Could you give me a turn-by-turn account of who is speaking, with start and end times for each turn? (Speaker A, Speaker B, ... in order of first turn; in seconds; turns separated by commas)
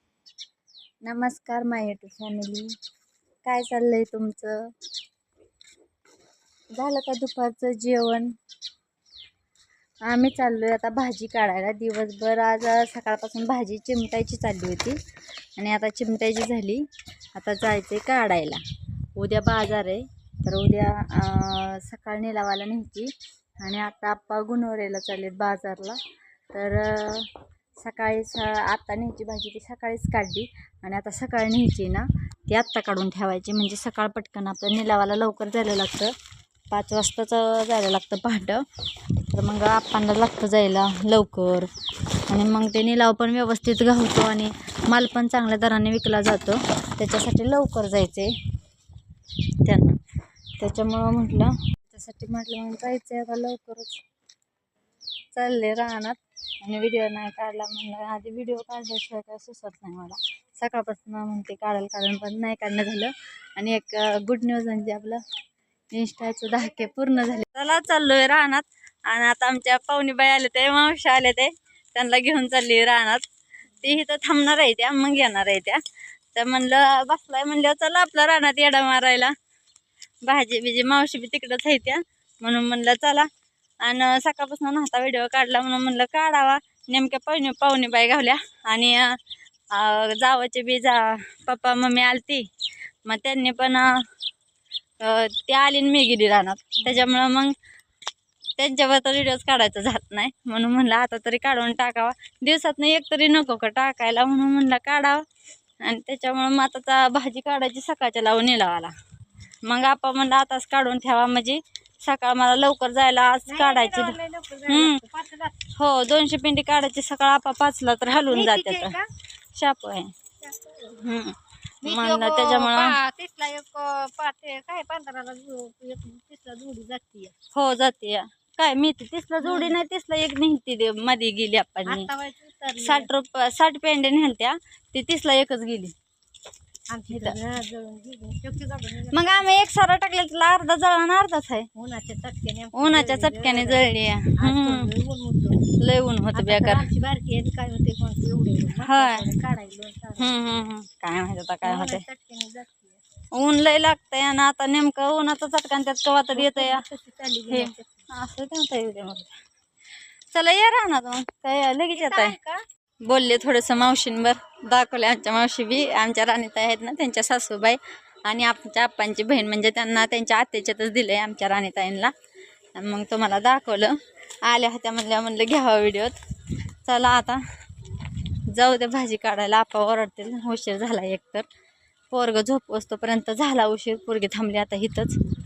Speaker A: 1.0-2.7, Speaker A: 3.4-4.6, Speaker A: 6.7-8.3, Speaker A: 10.1-15.0, Speaker A: 15.6-16.8, Speaker A: 17.4-18.6, Speaker A: 19.1-23.1, Speaker A: 23.6-26.0, Speaker A: 26.5-27.3, Speaker A: 27.8-36.1, Speaker A: 36.7-38.6, Speaker A: 39.3-41.7, Speaker A: 42.3-48.3, Speaker A: 49.6-50.0, Speaker A: 50.6-54.0, Speaker A: 55.3-65.2, Speaker A: 65.9-73.2, Speaker A: 73.8-75.8, Speaker A: 76.3-79.3, Speaker A: 80.2-83.3, Speaker A: 83.8-89.2, Speaker A: 89.7-92.5, Speaker A: 93.0-93.9, Speaker A: 95.0-97.5, Speaker A: 98.6-105.2, Speaker A: 105.8-108.9, Speaker A: 109.6-114.2, Speaker B: 113.5-115.6, Speaker A: 114.7-115.0, Speaker A: 115.7-119.0, Speaker B: 118.3-119.1, Speaker A: 119.5-120.1, Speaker B: 120.4-121.0, Speaker A: 121.0-123.0, Speaker B: 121.8-127.3, Speaker A: 127.5-132.1, Speaker B: 129.4-129.7, Speaker B: 131.8-133.1, Speaker A: 132.8-135.9, Speaker B: 136.9-139.4, Speaker A: 137.1-137.3, Speaker A: 139.1-141.7, Speaker B: 141.7-143.8, Speaker A: 142.7-144.9, Speaker B: 144.4-145.6, Speaker A: 145.8-146.9, Speaker B: 146.3-150.3, Speaker A: 148.8-149.2, Speaker A: 150.2-152.0, Speaker B: 151.6-153.0, Speaker A: 153.3-156.8, Speaker B: 156.3-158.0, Speaker A: 157.5-159.3, Speaker A: 160.3-162.3, Speaker B: 161.9-162.6, Speaker A: 163.0-172.1, Speaker A: 172.8-176.1, Speaker A: 176.8-177.4, Speaker A: 178.5-181.4, Speaker A: 182.1-185.2